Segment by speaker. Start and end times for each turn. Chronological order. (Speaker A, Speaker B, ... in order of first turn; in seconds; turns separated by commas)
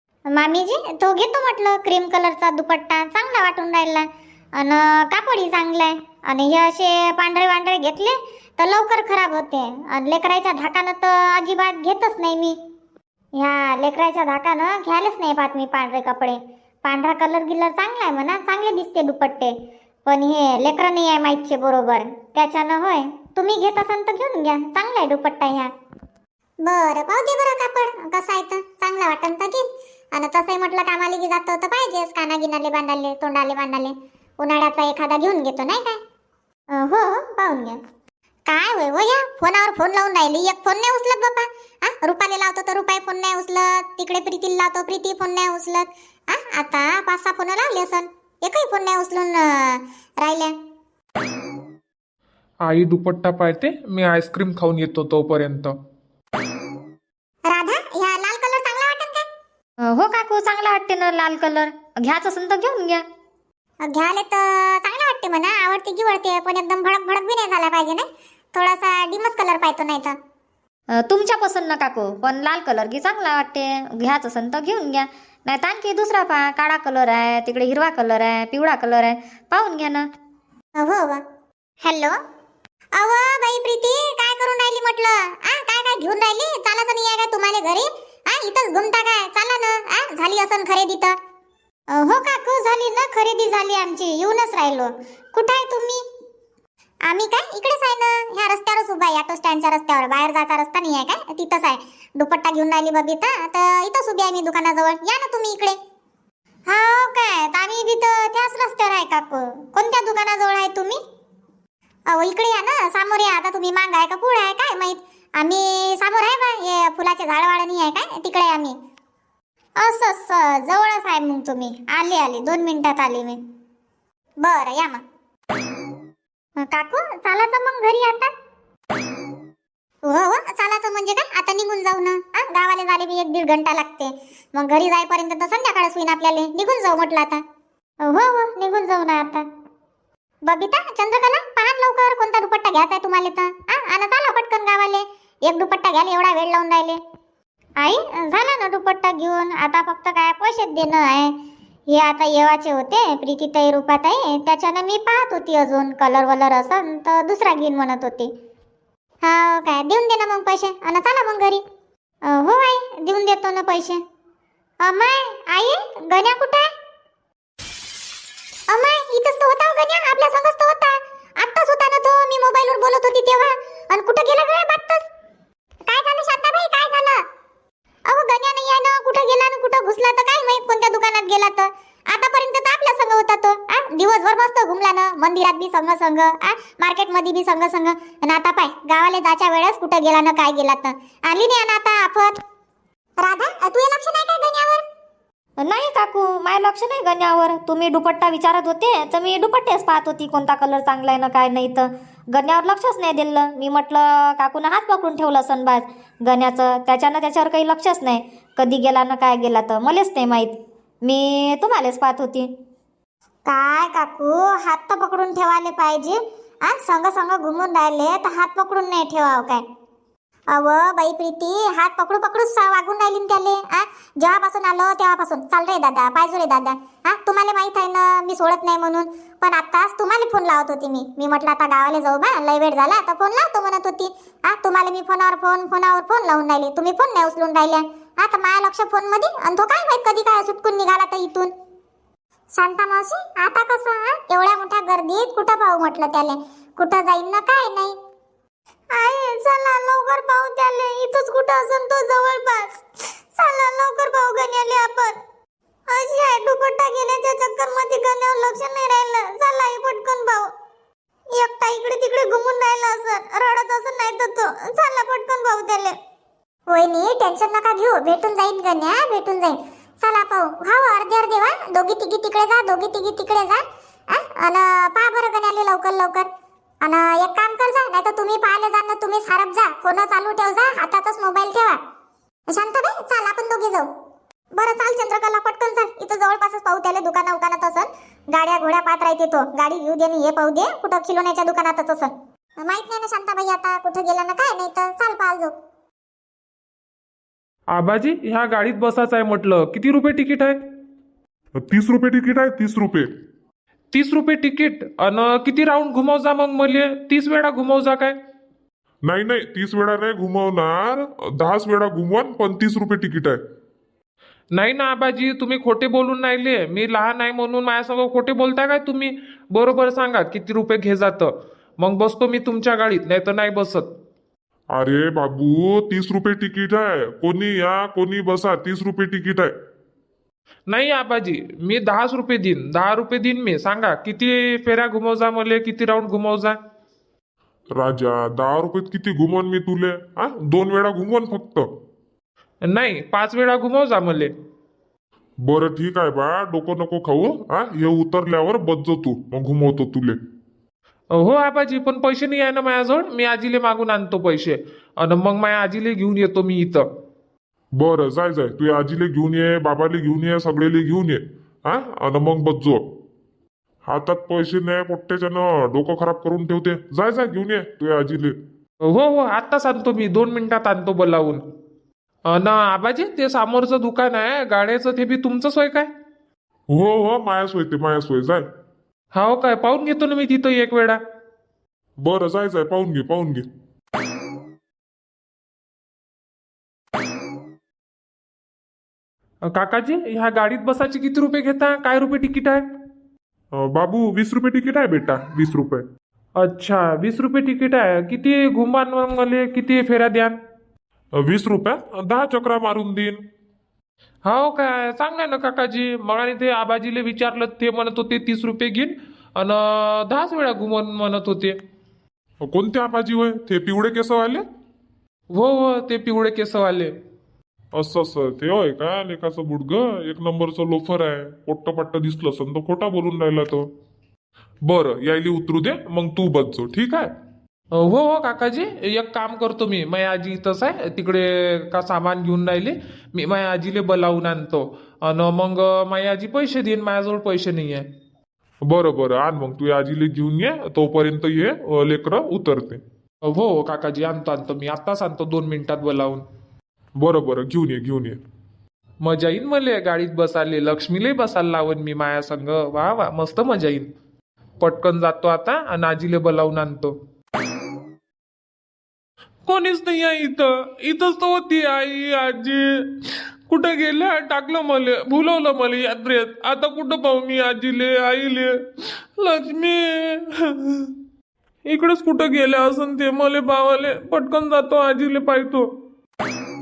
Speaker A: 0.3-4.1, Speaker A: 4.6-12.6, Speaker A: 13.4-19.5, Speaker A: 20.1-25.7, Speaker A: 26.6-29.6, Speaker A: 30.1-36.0, Speaker A: 36.7-37.8, Speaker A: 38.5-50.5, Speaker B: 52.6-55.7, Speaker A: 57.5-59.2, Speaker C: 59.9-63.0, Speaker A: 63.9-70.2, Speaker C: 71.0-80.1, Speaker A: 80.8-81.2, Speaker A: 81.8-82.2, Speaker A: 83.0-91.1, Speaker A: 91.9-96.0, Speaker A: 97.1-105.8, Speaker A: 106.7-111.0, Speaker A: 112.1-118.7, Speaker A: 119.8-123.4, Speaker A: 124.4-125.0, Speaker A: 126.6-128.3, Speaker A: 130.0-137.4, Speaker A: 138.0-139.4, Speaker A: 140.5-147.0, Speaker A: 147.8-151.3, Speaker A: 151.9-158.3, Speaker A: 159.2-161.6, Speaker A: 162.3-164.0, Speaker A: 164.8-166.7, Speaker A: 168.7-175.1, Speaker A: 175.9-177.2, Speaker A: 178.1-192.4, Speaker A: 193.2-194.8, Speaker C: 195.6-212.5, Speaker A: 213.5-219.6, Speaker A: 220.5-241.5, Speaker A: 242.6-247.9, Speaker A: 248.9-252.8, Speaker A: 253.3-255.2, Speaker A: 255.9-260.5, Speaker A: 261.3-265.9, Speaker A: 266.7-276.3, Speaker A: 276.8-281.8, Speaker A: 282.5-283.9, Speaker A: 284.6-295.5, Speaker B: 297.7-300.6, Speaker D: 301.6-303.1, Speaker B: 303.9-308.1, Speaker D: 309.1-313.4, Speaker B: 314.6-323.9, Speaker D: 324.7-329.5, Speaker B: 330.7-336.6, Speaker D: 337.8-341.7, Speaker B: 342.7-344.3, Speaker D: 345.4-350.2, Speaker B: 351.1-356.9, Speaker D: 357.8-362.8, Speaker D: 363.9-368.4, Speaker B: 368.9-371.4, Speaker B: 372.3-375.9, Speaker D: 376.7-378.5, Speaker B: 379.1-381.0, Speaker D: 382.0-383.4, Speaker B: 389.5-392.6, Speaker D: 393.5-395.9, Speaker B: 396.4-400.4, Speaker D: 401.2-403.2, Speaker B: 404.3-411.6, Speaker D: 412.4-414.4, Speaker B: 415.3-416.9, Speaker D: 417.7-423.7, Speaker D: 424.6-427.1, Speaker B: 427.8-437.9, Speaker D: 438.7-442.8, Speaker B: 443.2-446.2, Speaker D: 447.0-448.2, Speaker B: 449.0-453.9, Speaker B: 454.6-456.9, Speaker B: 459.5-462.8, Speaker B: 463.5-468.6, Speaker B: 469.2-470.9, Speaker B: 471.7-475.7